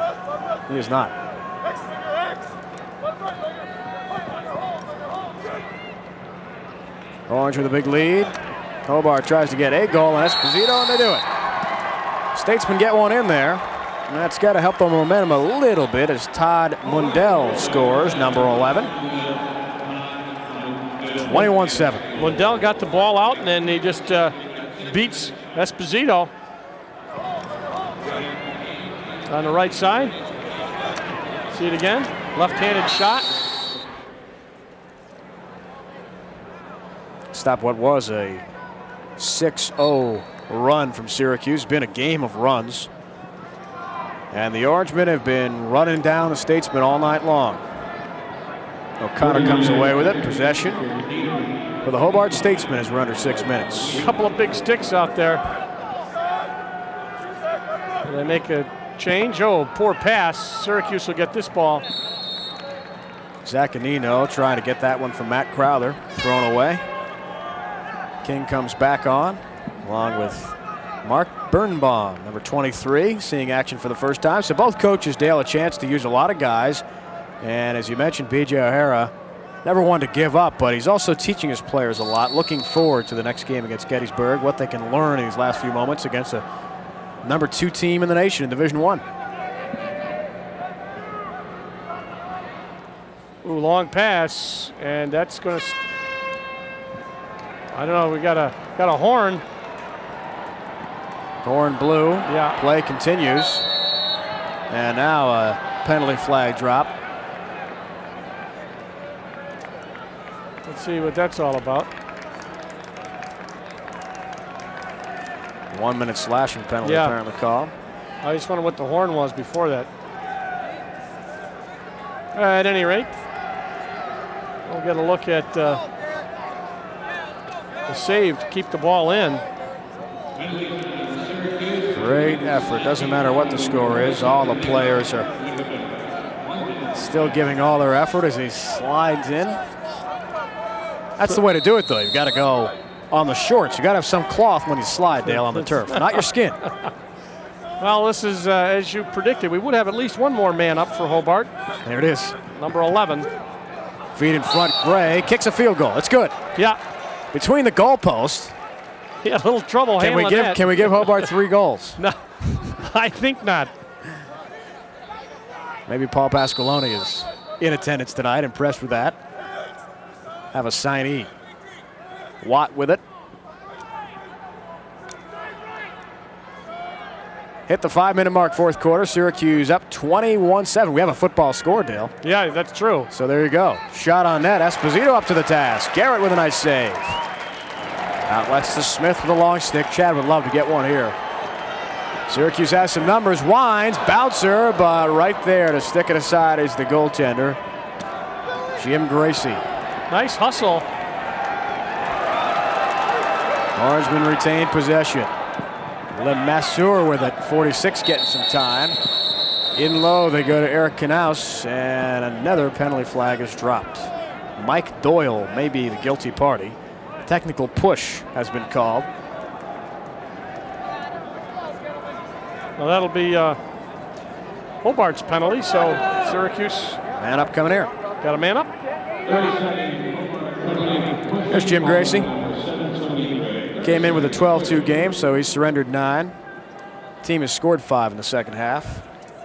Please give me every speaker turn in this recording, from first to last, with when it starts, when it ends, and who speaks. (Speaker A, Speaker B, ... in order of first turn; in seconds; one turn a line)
Speaker A: 0.7-1.1
Speaker A: 7.3-8.3
Speaker A: 8.9-11.2
Speaker A: 12.3-18.9
Speaker A: 21.1-22.1
Speaker B: 22.2-26.3
Speaker B: 29.3-30.1
Speaker B: 31.5-33.3
Speaker A: 37.3-38.5
Speaker A: 39.2-42.9
Speaker A: 44.3-47.6
Speaker A: 49.0-50.9
Speaker A: 51.8-54.1
Speaker B: 53.9-55.4
Speaker B: 58.0-61.9
Speaker A: 63.4-66.8
Speaker A: 68.2-76.8
Speaker A: 77.4-79.1
Speaker A: 79.6-86.5
Speaker A: 87.2-89.0
Speaker B: 93.4-95.8
Speaker B: 97.7-99.4
Speaker A: 101.4-103.7
Speaker B: 102.3-102.6
Speaker A: 104.7-106.9
Speaker B: 110.7-111.9
Speaker A: 115.7-117.7
Speaker B: 116.8-117.2
Speaker B: 118.2-119.9
Speaker B: 122.3-123.1
Speaker B: 124.7-125.8
Speaker B: 127.9-129.4
Speaker A: 131.9-135.3
Speaker A: 136.9-139.6
Speaker A: 141.2-146.6
Speaker B: 145.3-146.2
Speaker B: 147.8-151.5
Speaker A: 151.8-152.4
Speaker B: 152.5-153.3
Speaker A: 154.1-156.3
Speaker A: 157.3-158.6
Speaker B: 159.2-161.3
Speaker A: 160.0-162.0
Speaker B: 162.0-163.7
Speaker A: 165.9-169.2
Speaker A: 170.5-171.3
Speaker A: 172.4-173.0
Speaker A: 177.7-182.1
Speaker B: 182.2-183.1
Speaker A: 183.1-187.2
Speaker A: 188.3-191.2
Speaker A: 192.3-197.6
Speaker A: 198.8-199.6
Speaker B: 200.1-200.9
Speaker A: 203.8-205.3
Speaker A: 206.1-209.0
Speaker A: 209.8-219.1
Speaker B: 222.8-223.6
Speaker B: 224.8-227.0
Speaker A: 227.2-227.9
Speaker B: 228.2-228.7
Speaker A: 231.5-232.3
Speaker A: 233.8-236.3
Speaker A: 237.2-239.1